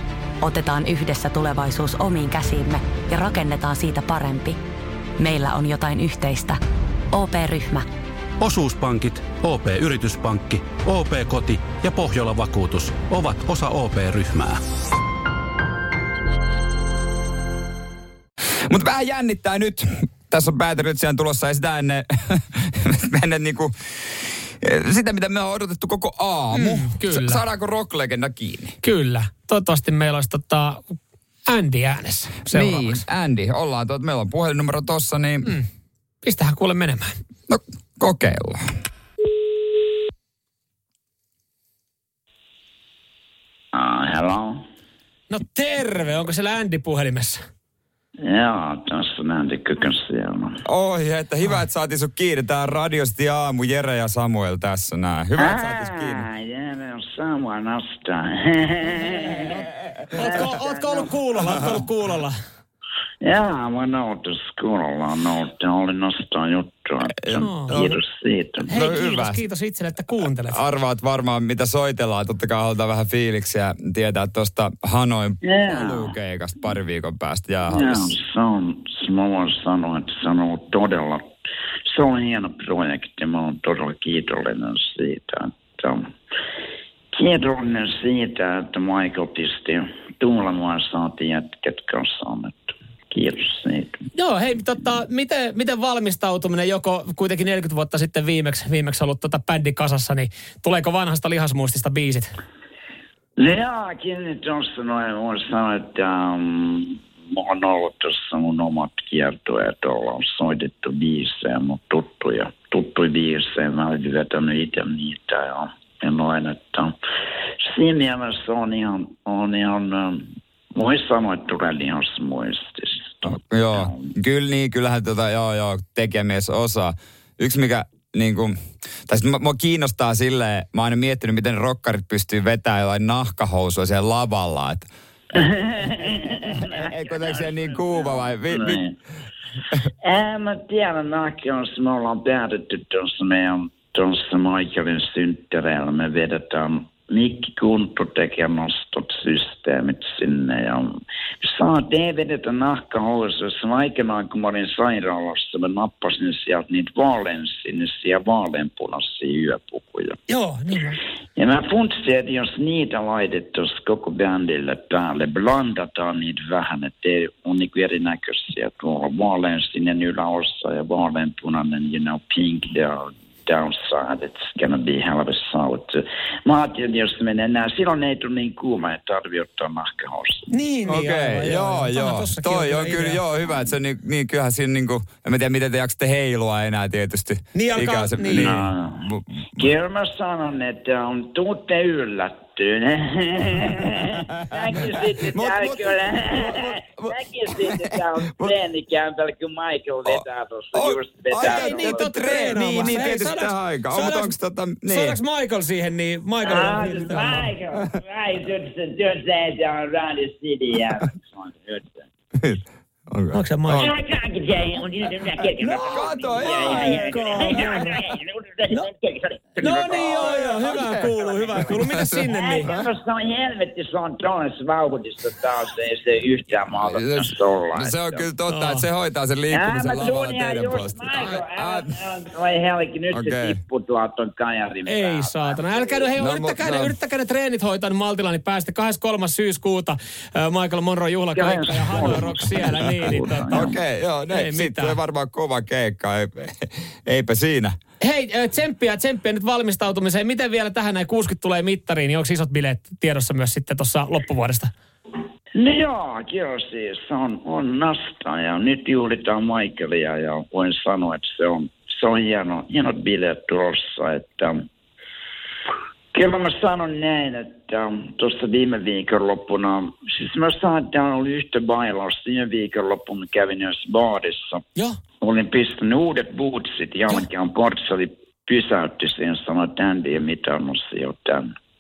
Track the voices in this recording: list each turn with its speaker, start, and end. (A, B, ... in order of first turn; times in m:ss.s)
0:00.4-0:04.6 A
0:05.2-0:06.6 A
0:07.1-0:07.9 A
0:08.4-0:14.6 B
0:18.7-0:28.8 C
0:26.5-0:27.4 D
0:28.8-0:30.8 D
0:31.5-0:33.0 D
0:32.5-0:35.5 C
0:36.2-0:37.2 D
0:37.5-0:38.7 C
0:43.7-0:44.6 E
0:45.3-0:47.4 D
0:48.2-0:50.6 E
0:50.6-0:56.3 C
0:55.4-1:01.1 E
1:00.1-1:02.4 D
1:03.2-1:08.7 E
1:07.1-1:08.0 C
1:07.4-1:07.8 D
1:08.6-1:09.4 C
1:08.7-1:10.6 D
1:10.5-1:18.1 C
1:15.4-1:16.2 E
1:17.7-1:21.3 E
1:21.9-1:26.0 E
1:27.1-1:34.0 E
1:34.2-1:42.3 D
1:43.4-1:57.0 E
1:57.6-2:04.1 E
2:03.3-2:14.9 C
2:15.3-2:19.0 E
2:16.6-2:18.8 C
2:20.0-2:30.9 E
2:31.4-2:40.2 E
2:40.3-2:41.0 D
2:41.4-3:00.5 E
3:00.5-3:03.2 D
3:00.9-3:09.6 C
3:07.5-3:08.6 D
3:08.4-3:22.1 E
3:15.2-3:18.5 C
3:20.1-3:25.2 C
3:21.4-3:24.3 D
3:22.9-3:23.2 E
3:24.8-3:27.5 D
3:26.4-3:32.1 E
3:32.4-3:34.0 C
3:33.3-3:33.9 D
3:33.8-3:48.3 E
3:35.6-3:37.7 C
3:36.4-3:38.0 D
3:39.6-3:42.7 D
3:41.6-3:42.8 C
3:46.8-3:51.9 C
3:48.5-3:48.9 D
3:49.5-3:56.1 E
3:53.1-3:53.6 C
3:54.9-4:03.6 D
3:56.2-3:56.9 C
4:01.3-4:03.8 E
4:03.5-4:07.8 C
4:04.3-4:05.0 D
4:08.0-4:14.7 D
4:15.6-4:24.6 E
4:26.1-4:34.6 E
4:35.2-4:41.5 E